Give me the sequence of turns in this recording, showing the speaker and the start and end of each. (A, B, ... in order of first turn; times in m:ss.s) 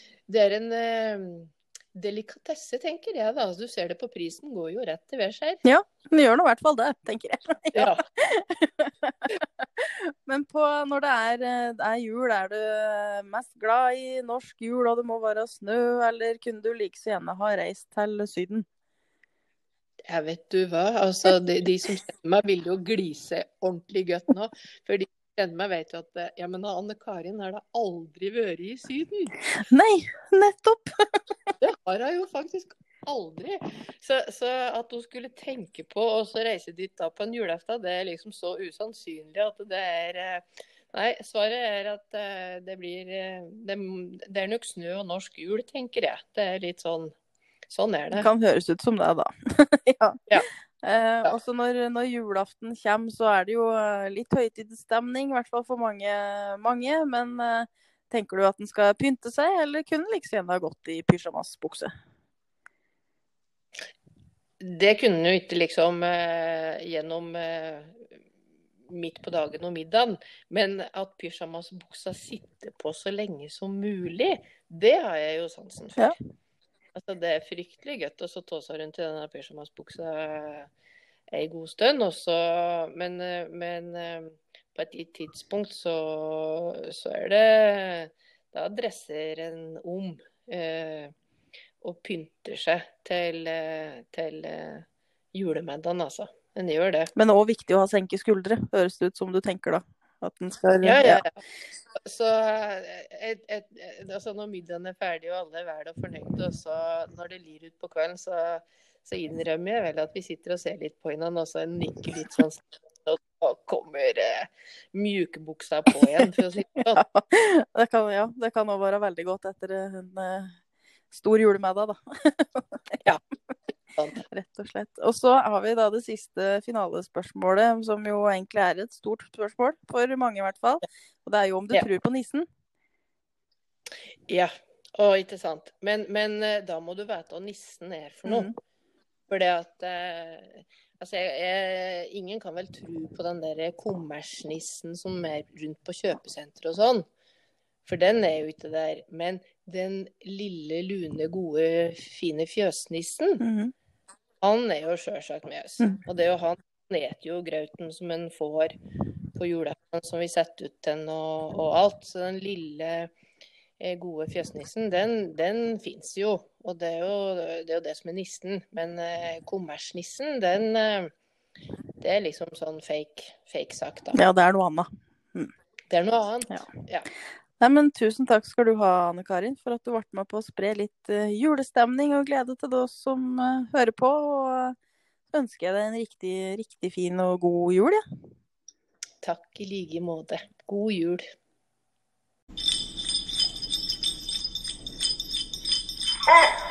0:00.3-0:05.6 A
0:05.6-0:18.6 B
0:20.1-0:29.4 A
0:29.7-0:30.9 B
0:31.6-0:47.1 A
0:47.7-0:48.3 A
0:48.1-0:50.2 B
0:50.8-1:01.9 B
1:04.6-1:08.1 A
1:08.9-1:16.1 A
1:17.0-1:20.7 A
1:21.3-1:31.1 A
1:31.8-1:37.1 A
1:37.2-1:41.2 B
1:40.8-1:41.4 A
1:42.0-1:57.0 A
1:56.9-2:00.5 B
2:01.1-2:03.0 B
2:04.0-2:04.2 A
2:04.3-2:12.5 B
2:14.3-2:18.5 A
2:18.3-2:18.5 B
2:19.3-2:27.0 A
2:27.8-2:33.4 A
2:33.4-2:33.7 B
2:34.4-2:38.7 A
2:39.4-2:43.1 A
2:43.8-2:51.1 A
2:52.0-2:54.2 A
2:54.1-2:55.5 B
2:55.9-2:57.1 A
2:57.6-3:04.8 B
3:05.3-3:08.0 B
3:09.2-3:11.2 A